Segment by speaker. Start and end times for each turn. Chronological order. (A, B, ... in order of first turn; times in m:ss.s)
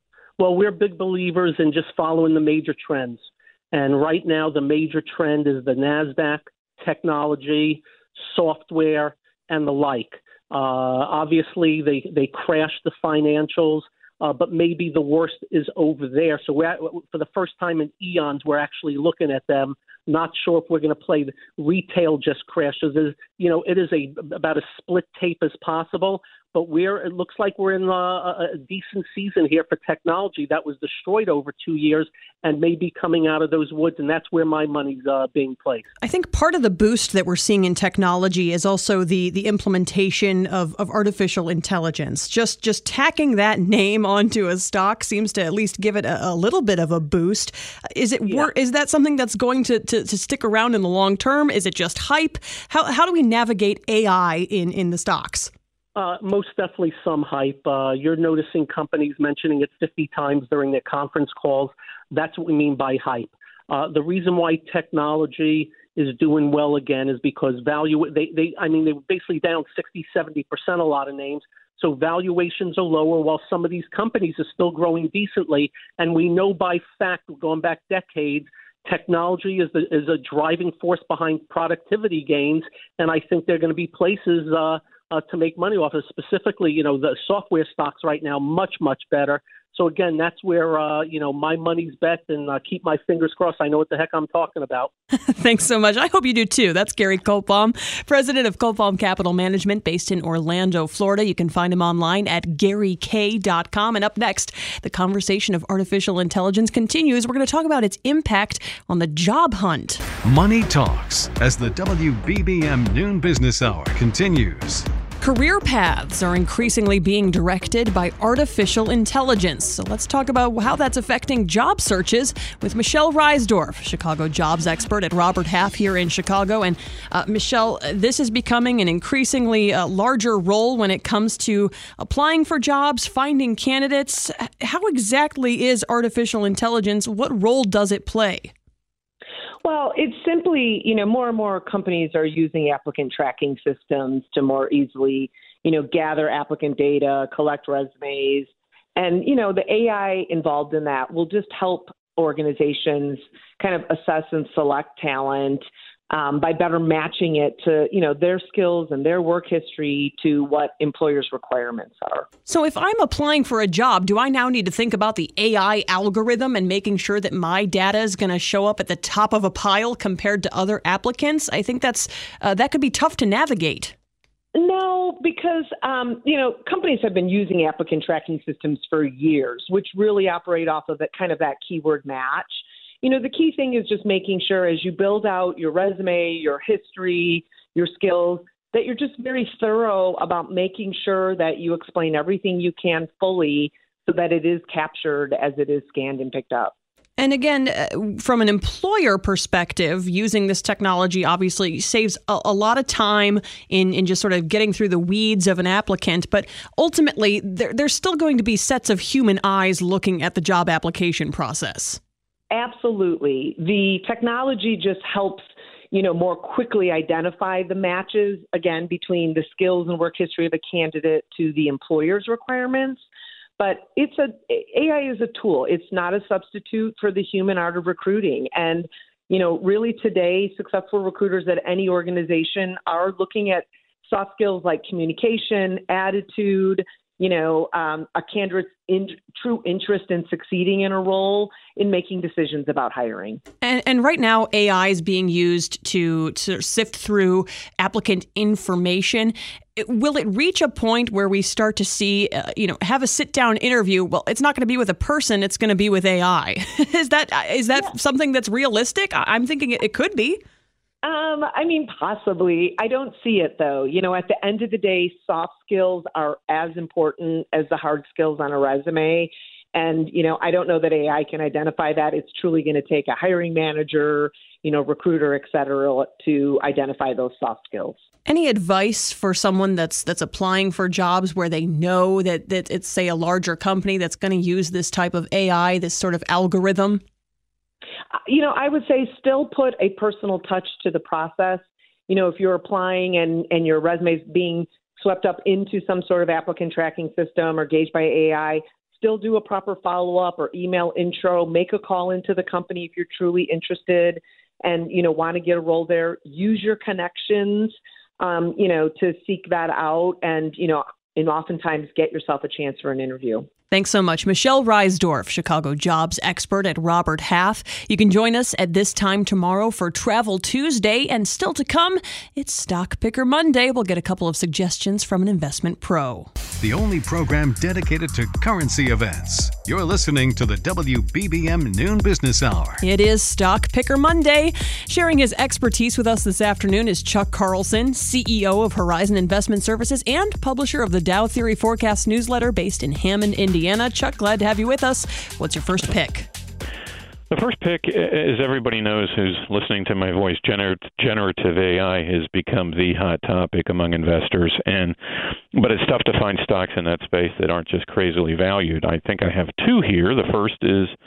0:00.4-0:35.9 A
0:36.0-0:55.5 B
0:56.0-1:34.9 A
1:35.3-1:50.0 B
1:50.2-1:54.9 C
1:55.2-2:18.5 B
2:19.6-2:42.3 D
2:42.5-2:53.9 B
2:54.5-3:16.7 D
3:17.2-3:32.0 B
3:32.5-3:43.0 D
3:43.6-4:03.4 D
4:03.6-4:20.4 B
4:21.0-4:38.0 D
4:38.2-4:47.0 B
4:48.2-5:13.5 D
5:13.7-5:26.3 B
5:26.6-5:32.8 C
5:32.8-5:46.3 B
5:47.3-5:55.0 E
5:55.5-6:00.9 E